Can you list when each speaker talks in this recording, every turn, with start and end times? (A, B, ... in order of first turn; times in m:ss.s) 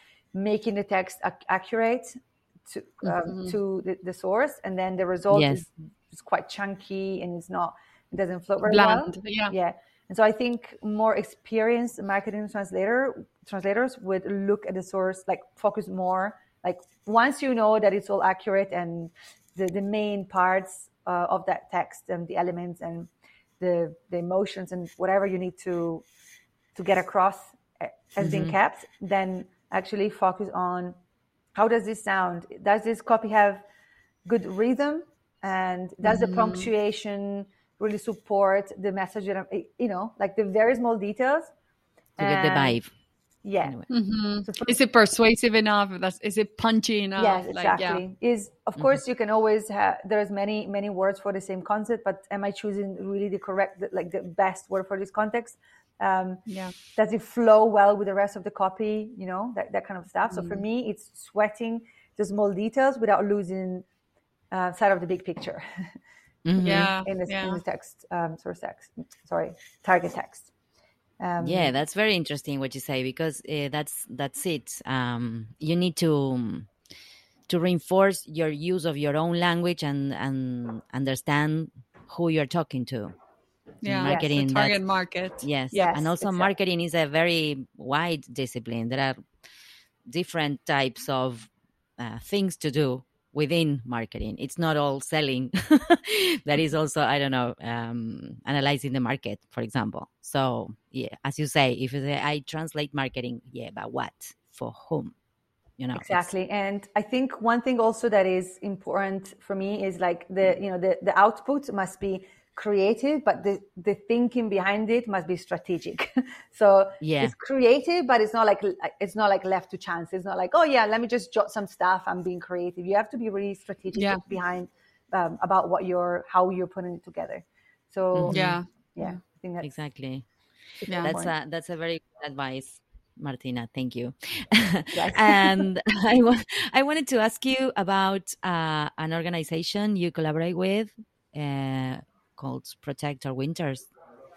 0:00.3-0:23.1 A
0:03.0-0:03.6 B
0:05.3-0:05.6 C
0:08.7-0:09.5 B
0:23.6-0:26.0 A
0:26.8-0:31.0 A
0:28.2-0:28.6 C
0:31.6-0:33.6 A
0:34.2-0:41.5 A
0:36.0-0:36.7 B
0:42.2-0:42.8 A
0:42.2-0:42.9 C
0:43.4-0:43.9 A
0:43.9-0:48.0 B
0:44.5-0:44.8 A
0:47.2-1:03.9 A
0:56.5-0:56.7 B
1:00.3-1:00.6 B
1:04.5-1:05.6 A
1:06.5-1:06.9 C
1:06.6-1:10.5 A
1:06.6-1:07.6 B
1:11.2-1:11.7 A
1:11.4-1:16.7 C
1:17.5-1:23.1 C
1:23.8-1:25.5 B
1:23.8-1:24.8 C
1:24.0-1:24.3 A
1:25.4-1:29.2 C
1:25.7-1:26.5 A
1:30.1-1:45.1 C
1:45.8-1:46.3 C
1:45.9-2:09.7 A
1:57.0-1:57.3 C
2:04.0-2:04.2 B
2:08.1-2:08.6 C
2:08.3-2:09.2 B
2:09.6-2:10.3 C
2:10.8-2:11.3 A
2:11.0-2:23.9 C
2:14.9-2:15.7 A